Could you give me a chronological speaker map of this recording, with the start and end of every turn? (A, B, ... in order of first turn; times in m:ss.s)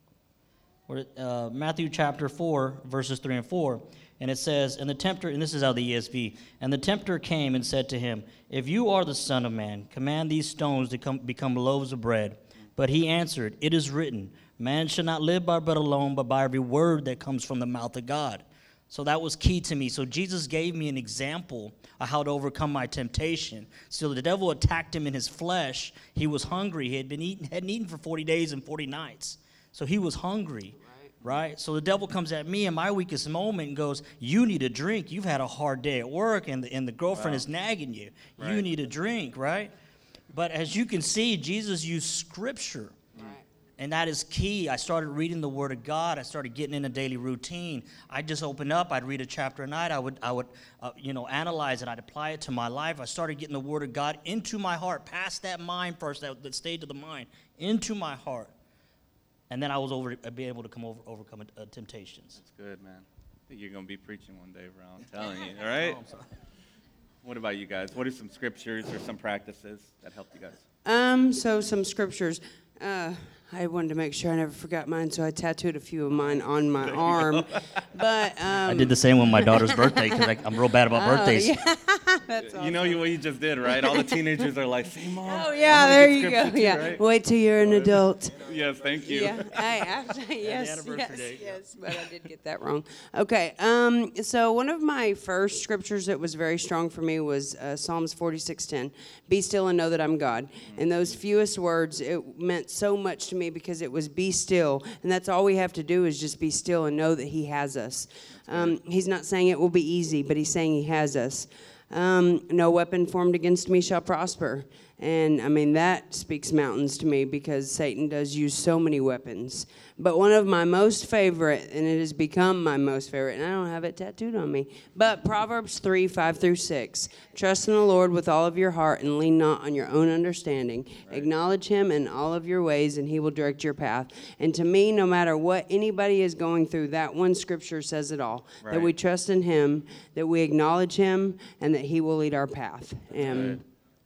0:00.9-0:39.7 A
0:30.8-0:31.1 B
0:37.1-0:37.4 C
0:38.4-0:38.6 C
0:40.3-0:43.0 A
0:43.2-0:43.4 B
0:43.8-0:58.5 A
0:59.5-1:02.4 A
1:02.4-1:06.0 C
1:05.8-1:06.3 A
1:07.2-1:10.6 C
1:10.8-1:20.3 B
1:16.8-1:17.6 C
1:18.6-1:21.5 A
1:20.9-1:23.0 B
1:22.5-1:27.0 C
1:23.7-1:24.2 B
1:25.2-1:28.4 B
1:27.6-1:29.6 C
1:29.0-2:23.6 B
1:30.4-1:31.6 A
1:48.4-1:48.8 C
2:18.6-2:18.9 C
2:23.2-2:23.6 C